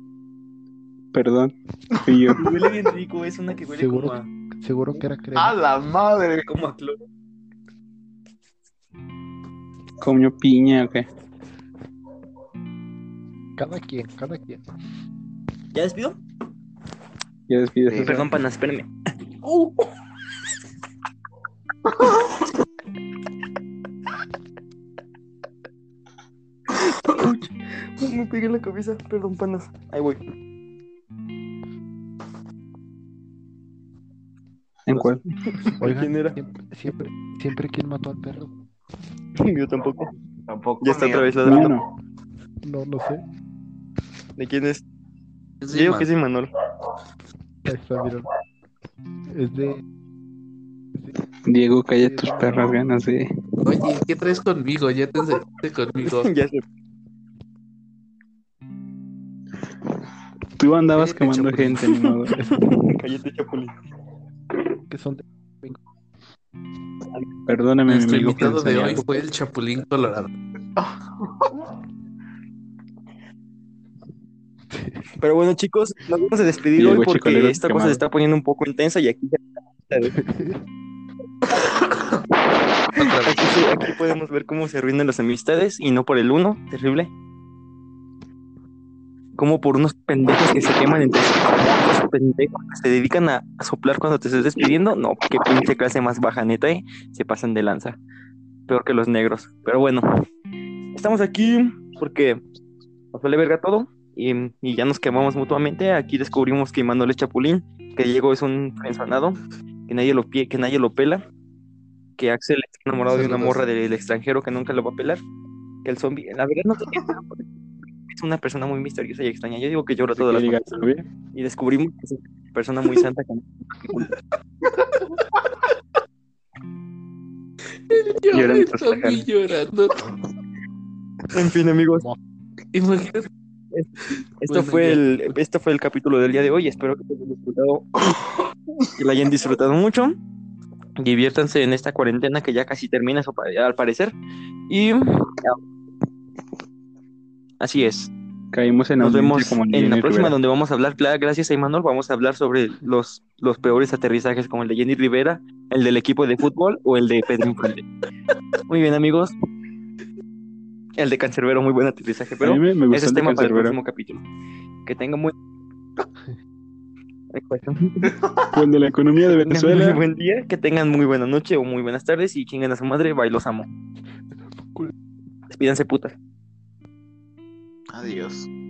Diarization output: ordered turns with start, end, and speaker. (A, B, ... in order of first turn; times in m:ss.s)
0:01.1-0:02.5 A
0:02.4-0:04.3 B
0:03.7-0:05.6 C
0:05.4-0:06.5 D
0:06.4-0:07.0 B
0:10.0-0:11.1 A
0:13.6-0:14.6 C
0:15.7-0:16.2 B
0:17.5-0:18.3 A
0:17.9-0:18.3 D
0:18.0-0:18.9 B
0:26.7-0:30.2 B
0:34.9-0:35.2 A
0:34.9-0:36.4 B
0:35.8-0:38.5 C
0:39.4-0:40.1 B
0:40.4-0:41.4 D
0:40.8-0:41.8 B
0:41.4-0:41.8 A
0:42.6-0:43.2 C
0:44.4-0:44.8 B
0:45.6-0:46.1 E
0:45.7-0:46.5 B
0:47.6-0:48.3 C
0:49.3-0:49.8 C
0:51.4-0:53.3 A
0:51.9-0:52.8 C
0:53.6-0:56.3 E
0:56.0-0:56.6 B
1:00.6-1:02.3 A
1:00.9-1:02.8 C
1:02.3-1:03.8 B
1:04.9-1:05.8 C
1:07.5-1:09.1 A
1:07.9-1:10.3 E
1:10.8-1:11.6 D
1:14.7-1:15.0 C
1:15.2-1:20.3 B
1:16.8-1:18.0 A
1:20.2-1:20.5 C
1:22.9-1:23.6 E
1:23.0-1:27.1 B
1:29.4-1:38.0 B
1:38.7-1:40.2 B
1:40.9-1:42.4 B
1:43.1-1:51.2 B
1:52.2-1:55.2 B
1:53.1-1:53.6 E
1:55.8-1:57.4 B
1:58.1-2:00.8 B
2:00.1-2:01.1 A
2:01.3-2:04.1 B
2:07.9-2:10.0 E
2:08.3-2:09.2 A
2:11.3-2:12.0 B
2:12.7-2:13.3 E
2:14.1-2:15.0 E
2:14.4-2:18.2 B
2:18.9-2:20.2 B
2:21.0-2:24.1 B
2:24.7-2:25.6 B
2:27.6-2:28.1 B
2:28.5-2:30.3 A
2:29.0-2:37.8 B
2:38.7-2:39.3 B
2:41.0-2:44.2 B
2:42.4-2:43.8 A
2:44.8-2:45.3 B
2:47.3-2:48.1 B
2:48.0-2:48.7 D
2:48.5-2:50.0 A
2:49.3-2:53.7 B
2:54.6-2:54.9 C
2:55.5-2:56.2 B
2:57.9-2:58.5 D